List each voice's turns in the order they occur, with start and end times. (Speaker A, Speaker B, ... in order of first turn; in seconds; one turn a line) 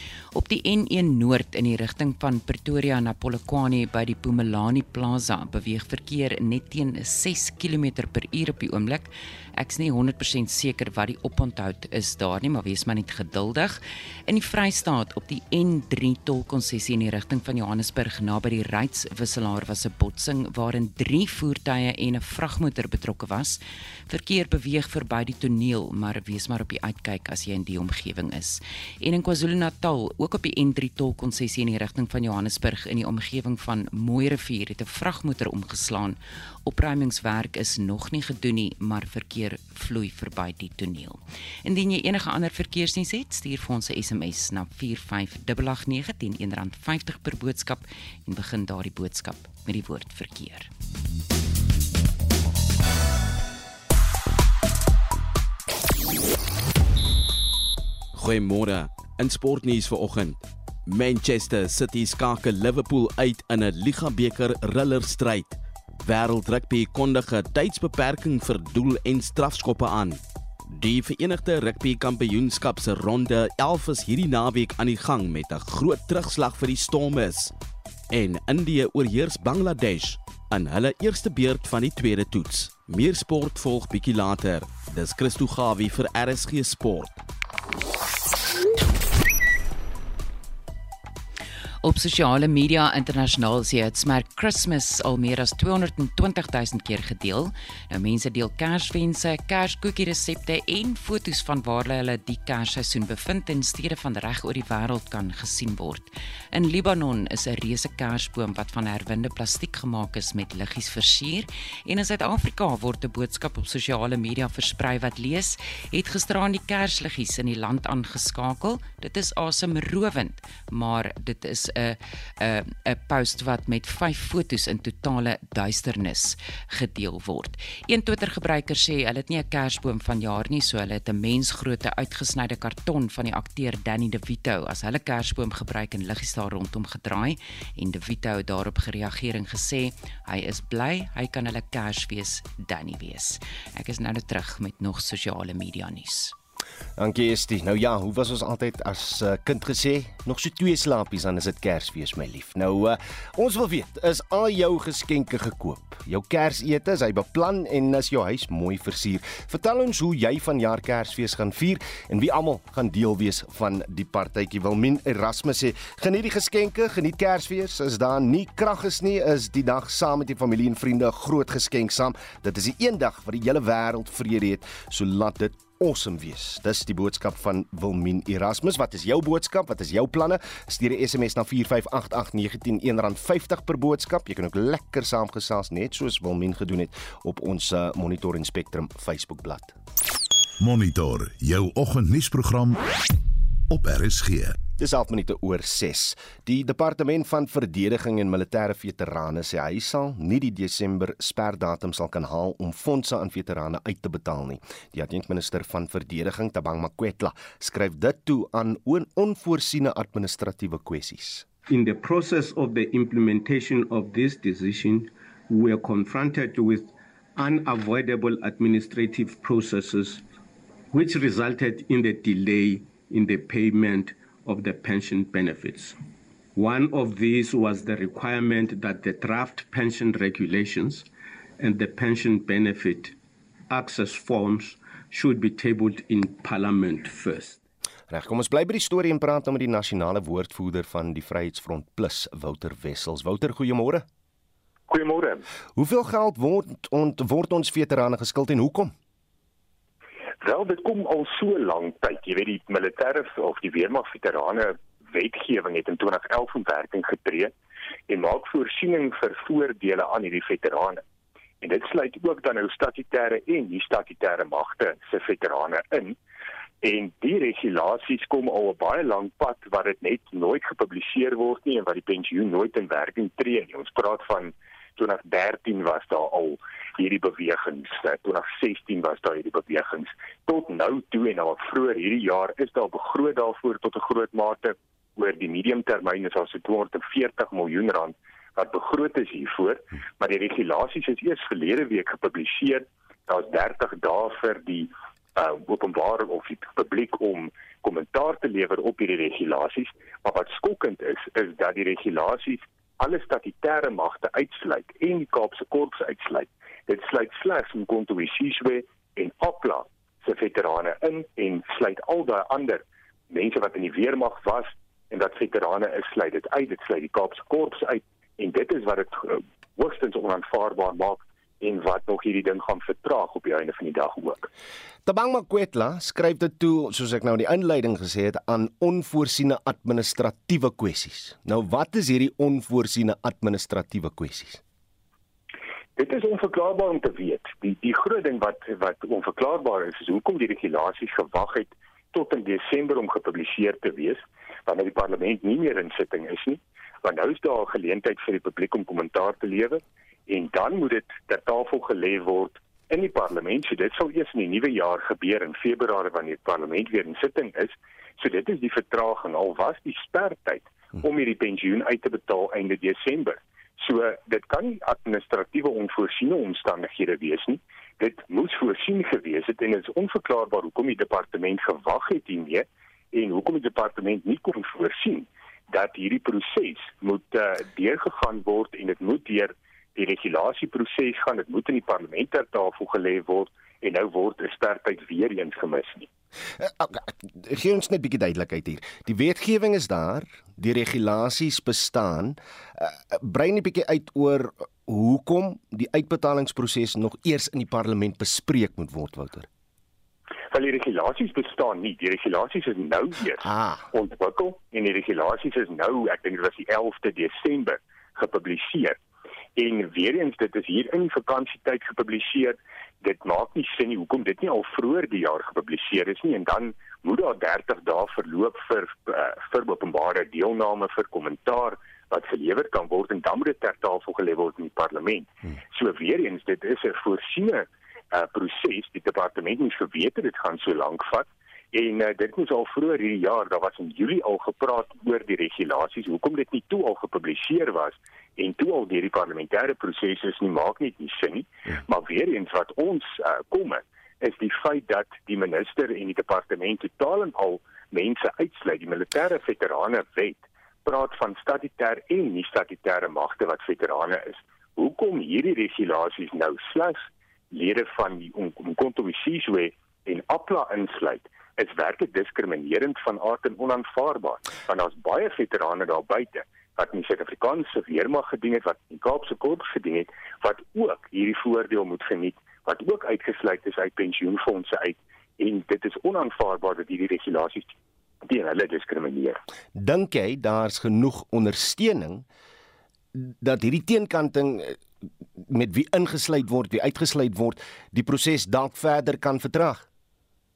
Speaker A: 0.3-50.7
Speaker B: 58.2-70.2
Speaker B: 70.7-77.5
Speaker B: 78.1-87.2
Speaker A: 91.8-146.3
Speaker C: 147.0-189.7
Speaker D: 190.6-192.8
Speaker D: 193.7-194.6
Speaker C: 194.8-211.4
Speaker E: 211.7-220.2
Speaker E: 220.9-226.0
Speaker E: 226.5-231.1
Speaker E: 231.6-233.2
Speaker E: 233.7-237.6
Speaker C: 238.1-244.1
Speaker F: 244.9-245.4
Speaker C: 245.8-248.9
Speaker F: 250.4-257.5
Speaker F: 258.1-261.0
Speaker F: 261.6-266.1
Speaker F: 266.8-324.5
Speaker C: 325.1-334.6
Speaker F: 336.0-386.1
Speaker C: 386.6-399.5
Speaker F: 400.5-409.0
Speaker C: 403.4-403.9
Speaker F: 409.6-477.7
Speaker F: 478.3-479.4
Speaker C: 479.7-482.2
Speaker C: 483.1-484.8
Speaker C: 485.4-489.9